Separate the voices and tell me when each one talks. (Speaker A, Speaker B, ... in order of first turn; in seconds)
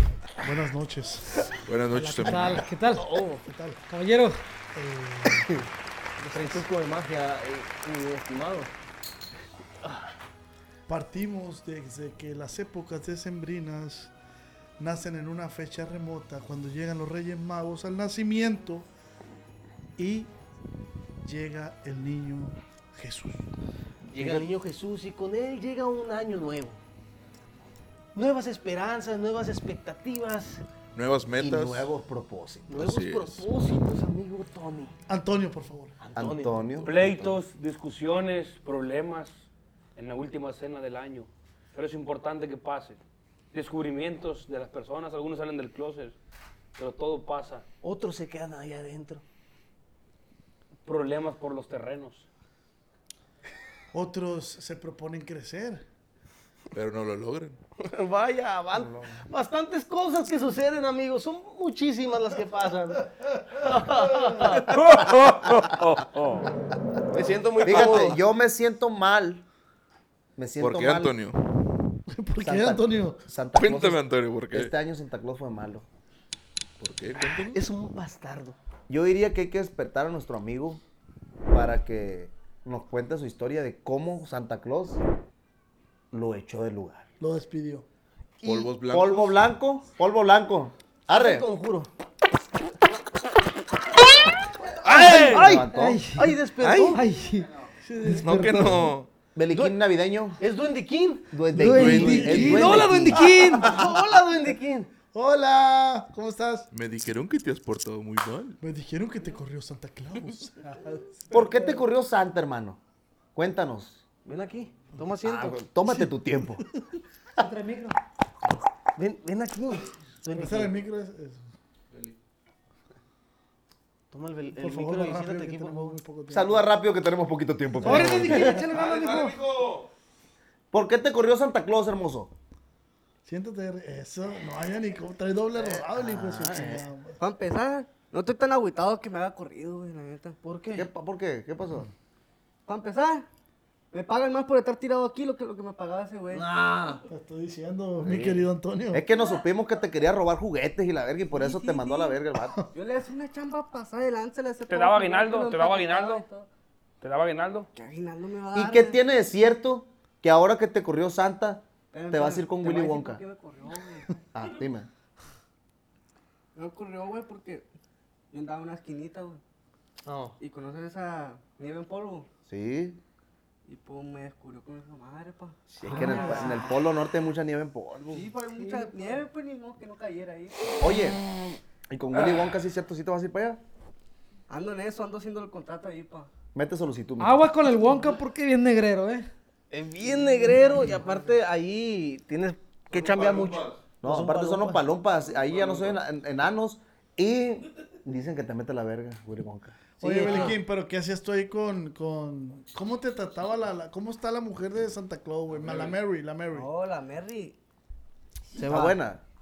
Speaker A: 0.4-1.4, 2.2-2.6, 3.4-3.8, 4.7-5.5, 10.9-14.1, 14.8-18.9, 20.0-20.3, 21.2-23.4, 24.1-24.4, 35.1-35.9, 53.9-55.8, 72.1-73.2, 87.2-87.8, 94.8-95.5, 97.8-98.8, 101.8-103.2, 105.1-106.7, 108.6-111.7, 120.3-121.4, 124.5-126.6, 133.2-137.2, 147.1-149.0, 200.0-206.7
Speaker B: 1.7-2.7, 30.9-31.9, 32.8-33.4, 56.7-57.6, 70.6-71.4, 73.6-74.7, 76.8-77.6, 88.4-89.3, 96.6-97.0, 98.2-99.1, 101.7-102.9, 106.7-108.6, 128.5-129.9, 192.9-193.8
Speaker C: 1.9-3.1, 3.9-4.4, 95.7-96.3, 96.9-97.5, 98.0-98.9, 101.5-103.8, 117.4-118.0, 127.8-129.3, 187.2-189.3
Speaker D: 3.0-3.4, 6.2-8.7, 24.1-26.8, 28.1-30.6, 32.7-34.9, 36.0-36.9, 47.8-49.2, 57.8-63.0, 63.5-64.8, 67.1-68.2, 77.2-78.5, 91.1-91.9, 94.8-97.0, 99.5-99.8, 100.4-101.3, 103.2-104.9, 114.2-115.6, 119.0-120.8, 124.1-126.0, 140.4-140.9, 146.3-147.0, 170.0-170.3, 175.8-176.7, 189.7-194.8, 200.0-200.6, 208.6-209.0
Speaker E: 31.4-32.8, 36.1-37.4, 67.6-69.4, 70.4-71.1, 72.4-75.8, 78.9-80.8, 81.5-85.0, 86.1-87.0, 88.4-91.4, 94.8-96.1, 99.3-100.4, 101.3-103.2, 111.3-112.8, 113.3-114.0, 115.2-116.6, 126.3-128.6, 130.7-132.3, 136.0-136.8, 140.7-141.9, 148.0-148.4, 148.9-152.5, 158.5-163.2, 164.3-164.9, 172.5-173.0, 175.8-178.3, 180.8-183.6, 186.5-187.7, 194.0-199.8, 208.7-209.2
Speaker F: 36.8-39.4, 40.0-43.0, 43.5-46.1, 46.8-47.6, 50.9-52.2, 64.7-66.5, 154.7-156.2, 157.0-157.7
Speaker G: 137.2-140.4, 142.7-143.2, 143.9-146.5, 151.3-152.2, 152.7-156.5, 157.7-159.0, 161.9-164.1, 166.6-167.6, 168.3-169.4, 170.4-172.3, 173.7-176.5, 178.1-181.2, 184.5-186.3, 206.5-207.6